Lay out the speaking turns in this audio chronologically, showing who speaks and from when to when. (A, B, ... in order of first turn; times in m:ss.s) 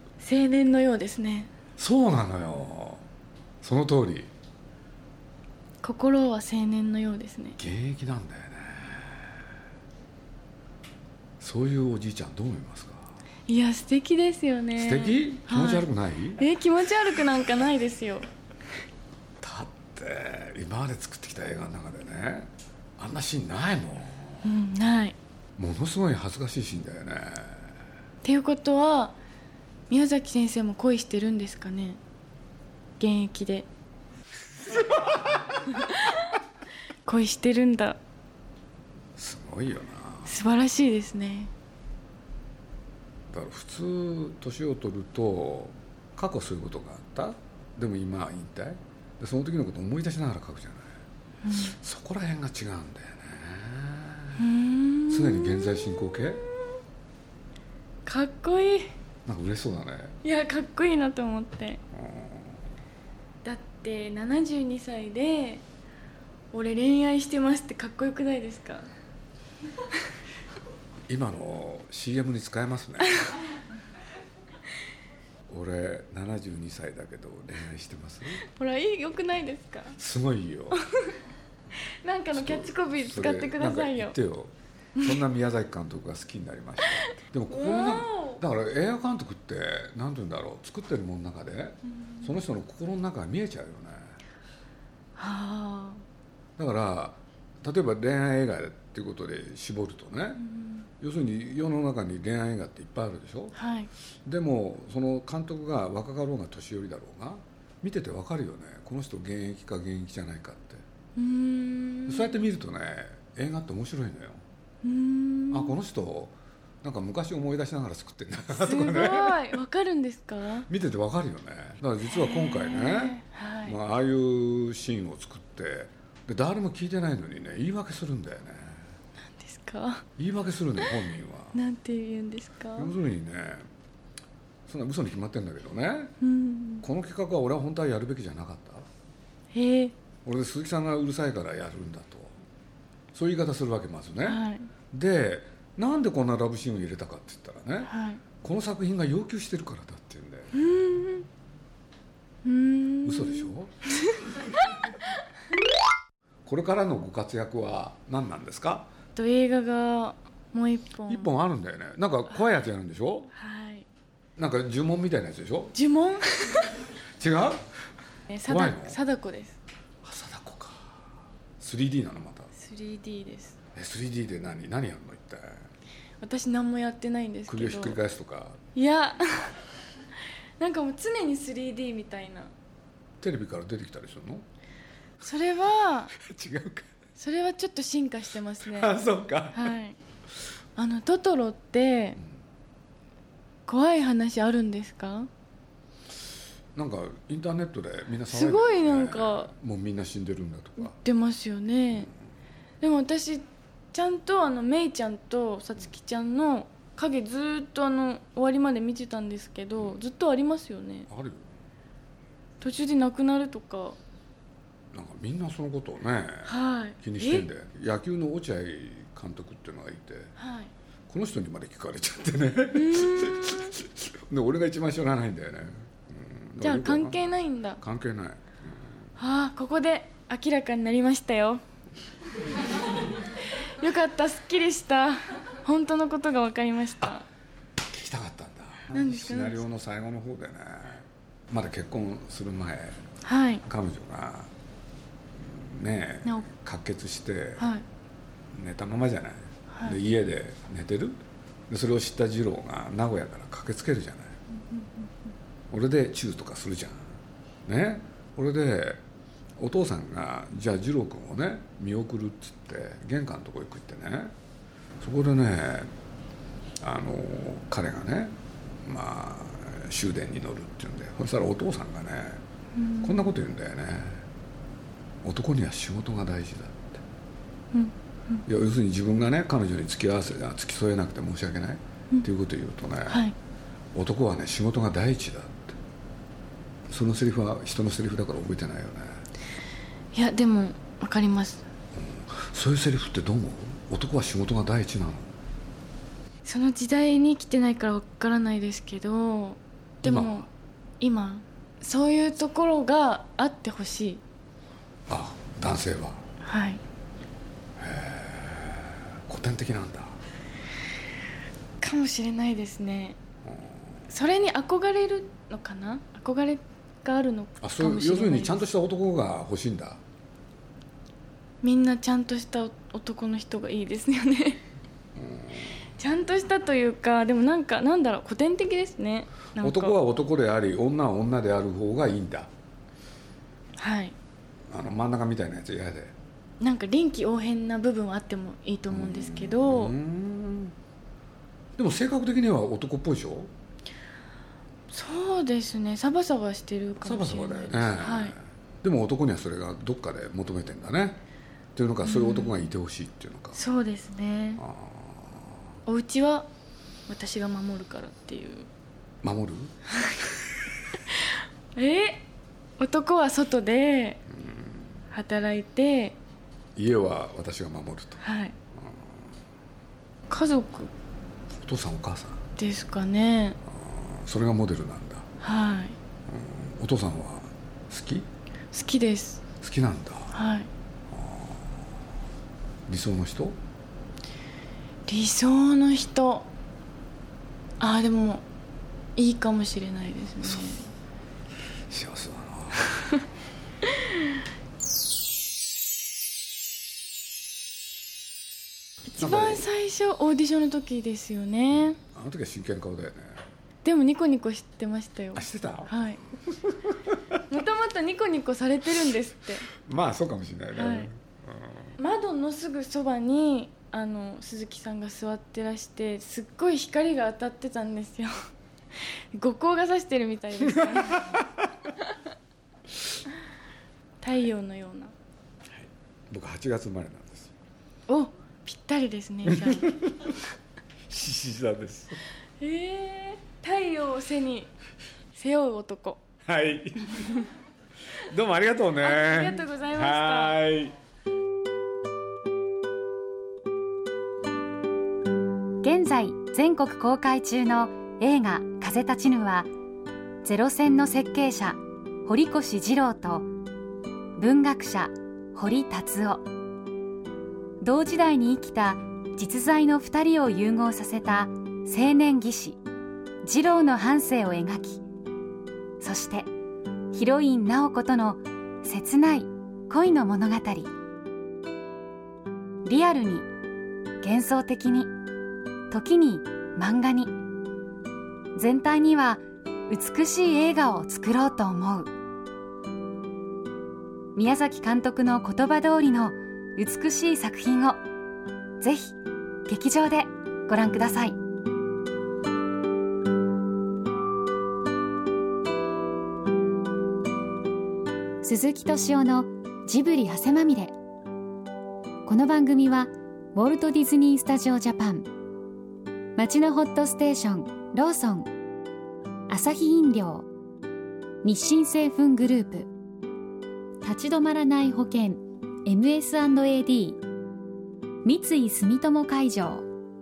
0:00.2-0:01.5 A
0:01.8-0:03.1 B
0:03.6-0:04.3 B
0:05.8-0:07.6 A
0:07.6-0:09.3 B
0:11.4-0:13.2 B
0:13.5-0:18.3 A
0:14.8-0:16.5 B
0:19.4-0:24.5 B
0:24.4-0:25.2 A
0:25.6-0:27.7 B
0:28.2-0:29.2 A
0:29.9-0:32.0 A
0:33.0-0:33.7 A
0:34.9-0:35.2 B
0:37.1-0:38.0 A
0:39.2-0:40.3 B
0:40.3-0:41.5 A
0:43.3-0:50.9 B
0:51.4-0:51.8 A
0:51.5-0:54.4 B
0:54.4-0:56.0 A
0:55.1-0:56.5 B
0:58.1-0:58.9 A
0:59.3-1:00.2 B
1:00.2-1:01.8 A
1:01.9-1:02.6 B
1:03.4-1:05.6 A
1:06.5-1:08.9 A
1:11.1-1:13.2 B
1:15.5-1:18.4 B
1:18.4-1:20.0 A
1:20.0-1:20.8 B
1:22.0-1:24.2 A
1:22.3-1:34.2 B
1:27.5-1:28.4 A
1:35.2-1:36.0 A
1:36.6-1:40.4 B
1:41.0-1:43.6 B
1:43.6-1:43.9 A
1:44.3-1:50.8 B
1:51.2-1:52.4 A
1:52.1-1:54.4 B
1:54.8-1:55.8 A
1:55.5-1:59.6 B
1:58.5-2:00.7 A
2:00.7-2:08.9 B
2:02.1-2:03.8 A
2:09.4-2:10.0 A
2:10.2-2:11.6 B
2:11.5-2:12.9 A
2:12.8-2:13.7 B
2:14.7-2:16.2 B
2:16.2-2:16.8 A
2:16.8-2:18.8 B
2:19.5-2:20.0 A
2:20.3-2:22.4 B
2:23.1-2:30.7 B
2:24.2-2:24.7 A
2:27.9-2:28.2 A
2:30.5-2:31.3 A
2:32.4-2:33.5 A
2:33.0-2:33.7 B
2:36.5-2:38.9 B
2:39.2-2:41.3 A
2:41.1-2:43.3 B
2:43.3-2:43.9 A
2:44.4-2:45.8 B
2:45.7-2:46.8 A
2:47.2-2:47.6 B
2:48.3-2:49.6 A
2:48.5-2:49.0 B
2:50.0-2:50.9 B
2:51.6-2:52.5 B
2:52.6-2:53.6 A
2:53.8-2:55.7 B
2:56.2-2:58.0 A
2:57.5-2:58.6 B
2:58.8-2:59.6 A
3:00.6-3:02.5 A
3:03.2-3:04.4 B
3:05.2-3:06.1 A
3:06.2-3:06.9 B
3:07.2-3:10.0 A
3:08.6-3:09.8 B
3:10.8-3:12.2 A
3:13.7-3:15.3 A
3:16.8-3:21.0 B
3:18.3-3:19.5 A
3:20.8-3:22.1 A
3:22.8-3:31.1 A
3:31.1-3:31.5 B
3:32.6-3:34.0 A
3:34.9-3:40.3 B
3:36.5-3:37.5 A
3:40.4-3:40.7 A
3:41.1-3:47.3 B
3:42.7-3:43.8 A
3:46.6-3:47.8 A
3:47.8-3:48.9 B
3:49.2-3:51.6 A
3:53.5-3:57.3 A
3:57.9-4:03.0 B
3:58.9-3:59.6 A
4:03.2-4:03.6 A
4:03.6-4:04.5 B
4:05.4-4:07.7 B
4:07.6-4:07.8 A
4:08.5-4:14.4 B
4:09.7-4:10.0 A
4:15.7-4:19.0 B
4:19.6-4:24.3 B
4:25.0-4:25.9 B
4:26.8-4:32.4 B
4:32.8-4:33.4 A
4:33.0-4:34.2 B
4:35.2-4:37.0 B
4:37.7-4:38.4 A
4:38.5-4:43.3 B
4:43.1-4:43.4 A
4:43.9-4:45.8 B
4:46.9-4:49.2 B
4:50.1-4:51.6 A
4:52.0-4:55.3 B
4:56.4-5:00.5 A
5:00.0-5:00.5 B
5:01.0-5:04.2 A
5:05.1-5:06.2 B
5:06.4-5:06.8 A
5:07.8-5:10.2 B
5:11.8-5:13.2 A
5:14.1-5:18.6 A
5:17.6-5:20.0 B
5:21.6-5:24.6 A
5:25.2-5:25.8 B
5:26.0-5:29.9 A
5:29.6-5:32.5 B
5:33.8-5:34.2 A
5:34.7-5:36.2 B
5:36.6-5:40.0 A
5:38.9-5:40.8 B
5:41.8-5:43.5 B
5:44.9-5:48.4 A
5:47.0-5:51.2 B
5:51.8-5:53.6 B
5:52.0-5:52.5 A
5:53.6-5:54.6 A
5:54.6-5:55.5 B
5:55.9-5:56.5 A
5:57.1-5:58.7 A
5:59.2-5:59.7 B
6:01.8-6:02.2 A
6:02.8-6:04.2 A
6:04.4-6:04.9 B
6:05.1-6:06.2 A
6:06.8-6:08.2 B
6:08.2-6:08.6 A
6:08.8-6:09.1 B
6:10.3-6:10.9 A
6:11.6-6:12.4 B
6:12.6-6:13.6 A
6:13.7-6:15.3 B
6:15.4-6:16.0 A
6:16.3-6:18.3 B
6:18.7-6:19.4 A
6:19.6-6:20.4 B
6:20.3-6:20.7 A
6:21.1-6:21.6 B
6:22.9-6:23.6 B
6:25.1-6:26.5 A
6:27.8-6:28.4 A
6:29.2-6:30.9 A
6:30.4-6:30.8 B
6:31.9-6:33.0 B
6:39.1-6:42.0 A
6:39.2-6:39.6 B
6:42.0-6:43.4 B
6:43.8-6:46.2 A
6:45.4-6:46.0 B
6:46.5-6:47.2 B
6:47.5-6:49.7 A
6:49.8-6:51.9 B
6:50.8-6:51.1 A
6:52.0-6:58.3 A
6:59.3-7:01.4 A
7:01.1-7:01.4 B
7:04.2-7:05.1 A
7:05.7-7:07.5 B
7:08.1-7:09.9 A
7:09.5-7:10.4 B
7:11.1-7:12.2 B
7:12.6-7:14.7 A
7:15.4-7:16.2 A
7:16.5-7:17.4 B
7:18.2-7:21.0 B
7:19.0-7:20.6 A
7:25.8-7:29.7 C
7:30.4-7:33.5 C
7:34.4-7:36.4 C
7:37.8-7:42.8 C
7:43.4-7:45.0 C
7:46.0-7:46.5 C
7:47.1-7:50.9 C
7:52.8-7:53.5 C
7:54.2-7:55.1 C
7:55.9-7:57.3 C
7:58.6-8:02.1 C
8:04.4-8:08.0 C
8:08.8-8:11.4 C
8:18.4-8:20.9 C
8:22.3-8:25.3 C
8:26.4-8:28.5 C
8:29.5-8:30.5 C
8:31.4-8:32.9 C
8:34.0-8:37.2 C
8:38.2-8:39.9 C